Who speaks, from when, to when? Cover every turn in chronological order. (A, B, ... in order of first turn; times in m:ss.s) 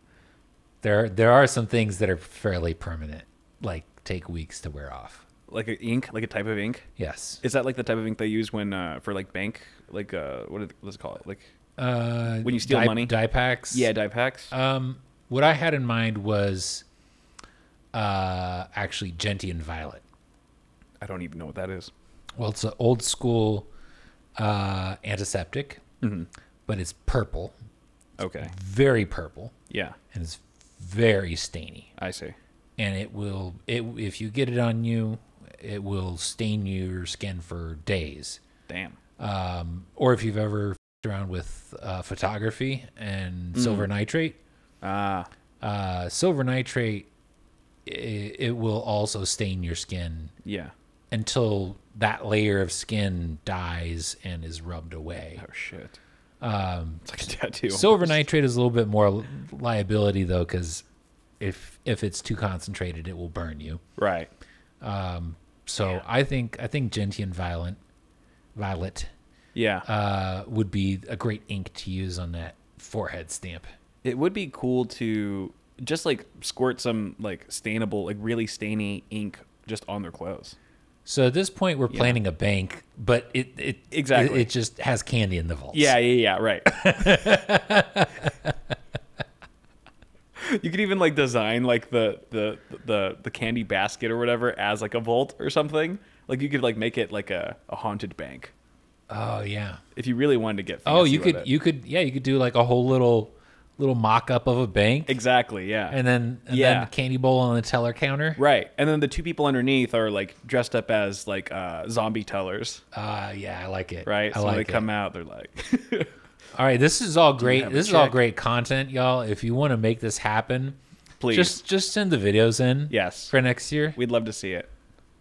0:00.8-0:05.2 A
0:05.5-0:06.9 B
0:07.0-0:07.4 A
0:07.4-0:11.5 B
0:11.8-0:13.9 A
0:12.4-0:13.1 B
0:13.7-0:14.5 B
0:14.5-0:16.8 A
0:17.9-0:20.0 A
0:21.0-0:21.9 B
0:22.4-0:23.7 A
0:24.4-0:25.8 A
0:26.0-0:26.3 B
0:26.7-0:27.6 A
0:28.2-0:28.5 B
0:28.4-0:29.5 A
0:29.7-0:30.0 B
0:30.1-0:31.9 A
0:32.0-0:32.4 B
0:32.8-0:38.4 A
0:38.7-0:39.0 B
0:39.2-0:44.4 A
0:43.5-0:43.9 B
0:44.8-0:45.3 B
0:45.6-0:47.1 A
0:47.9-0:50.3 A
0:50.4-0:50.7 B
0:51.1-0:55.4 A
0:55.4-0:56.0 B
0:56.4-1:00.8 A
0:57.0-0:58.2 B
1:01.4-1:03.8 A
1:04.0-1:04.3 B
1:04.8-1:07.8 A
1:08.6-1:09.1 A
1:09.6-1:09.9 B
1:09.8-1:13.7 A
1:14.0-1:20.6 B
1:21.1-1:26.0 A
1:21.9-1:22.2 B
1:23.9-1:24.5 B
1:25.7-1:27.2 B
1:26.7-1:28.6 A
1:30.4-1:38.5 B
1:39.1-1:39.8 A
1:40.0-1:41.5 B
1:40.9-1:45.2 A
1:45.1-1:46.0 B
1:45.9-1:48.4 A
1:46.5-1:46.9 B
1:48.4-1:52.8 B
1:52.9-1:54.9 A
1:54.0-1:56.1 B
1:56.5-2:00.8 A
1:57.4-1:58.2 B
2:01.2-2:01.6 B
2:01.3-2:04.0 A
2:02.9-2:03.3 B
2:04.0-2:04.7 B